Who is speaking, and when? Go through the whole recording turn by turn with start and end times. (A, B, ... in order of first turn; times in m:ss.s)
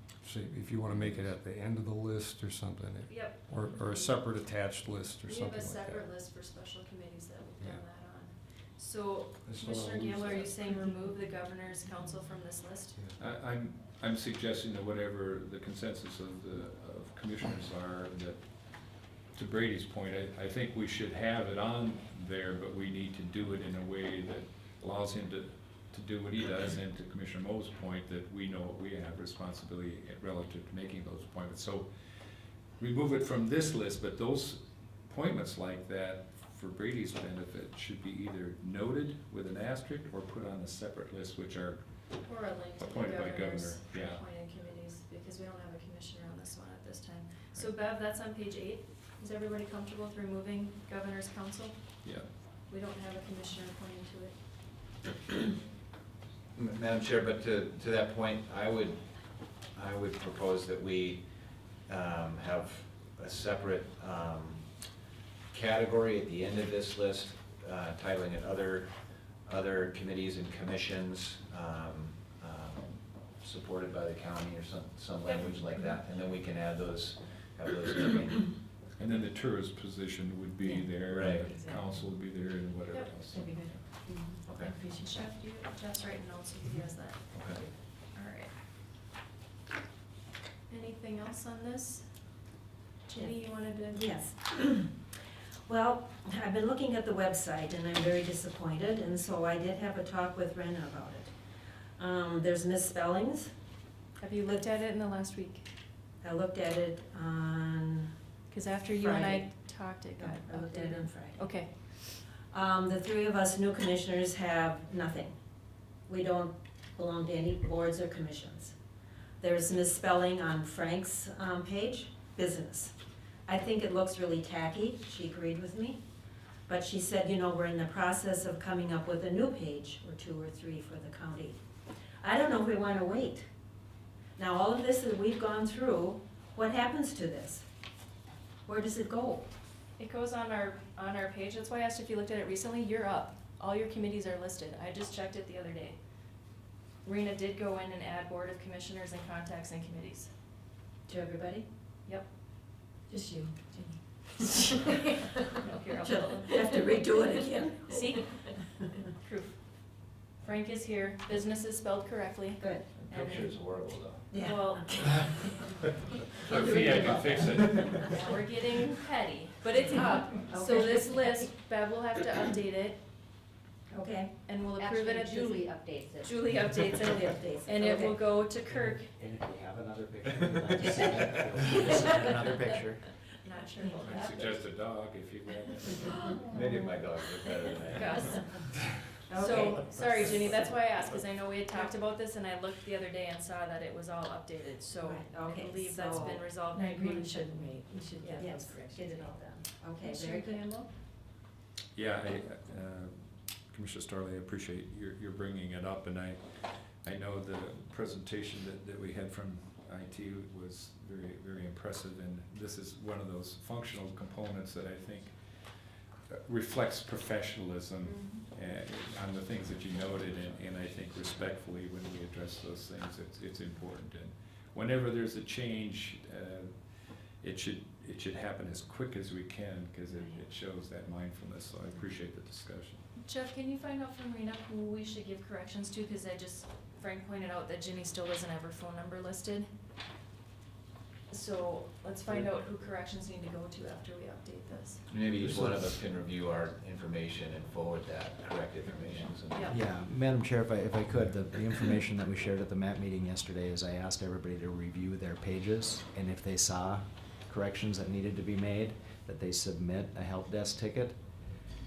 0:00.2-0:06.1 A
0:00.9-0:01.3 B
0:03.1-0:04.2 C
0:05.3-0:13.0 C
0:09.4-0:10.9 A
0:13.2-0:32.1 B
0:32.8-0:41.8 B
0:42.2-0:52.1 C
0:42.8-0:44.2 B
0:52.0-0:52.3 B
0:52.7-0:54.4 C
0:56.6-0:59.1 D
0:59.7-1:04.7 D
1:05.5-1:18.6 D
1:19.0-1:23.8 B
1:21.1-1:21.6 D
1:22.9-1:23.2 C
1:24.4-1:24.7 D
1:24.6-1:27.6 C
1:27.3-1:27.6 D
1:28.1-1:28.5 C
1:30.7-1:32.4 C
1:33.0-1:34.0 C
1:33.9-1:35.1 E
1:35.7-1:41.3 E
1:42.0-1:43.5 E
1:44.2-1:45.7 C
1:46.2-1:48.1 E
1:48.5-1:52.2 C
1:49.0-1:49.5 E
1:50.2-1:51.4 E
1:52.5-1:55.3 E
1:56.1-1:58.7 E
1:59.4-2:02.9 E
2:03.5-2:06.0 E
2:06.7-2:11.6 E
2:12.2-2:13.5 E
2:14.4-2:17.6 E
2:18.7-2:19.5 E
2:20.0-2:26.0 C
2:27.0-2:30.3 C
2:31.1-2:31.6 E
2:33.1-2:34.8 E
2:35.5-2:36.8 C
2:36.0-2:38.2 E
2:37.9-2:43.7 C
2:42.6-2:42.9 E
2:43.0-2:44.3 D
2:44.3-2:45.2 E
2:44.3-2:45.4 C
2:45.2-2:45.5 D
2:46.4-2:48.3 B
2:46.4-2:46.9 C
2:46.5-2:47.4 E
2:48.0-2:48.4 F
2:48.1-2:53.0 C
2:49.9-2:51.5 E
2:53.9-2:54.4 E
2:54.4-2:59.1 C
2:54.9-2:56.3 F
2:57.0-2:58.2 E
2:59.0-3:03.1 G
3:03.4-3:04.6 C
3:04.0-3:06.6 B
3:06.5-3:08.4 D
3:07.9-3:08.4 C
3:09.3-3:10.3 E
3:09.4-3:17.8 C
3:15.0-3:16.6 E
3:16.8-3:19.4 F
3:18.2-3:20.7 E
3:20.0-3:20.9 C
3:22.0-3:53.0 B
3:53.2-3:59.7 C
4:01.3-4:05.1 C
4:05.1-4:09.8 D
4:09.5-4:09.8 C
4:09.7-4:21.2 G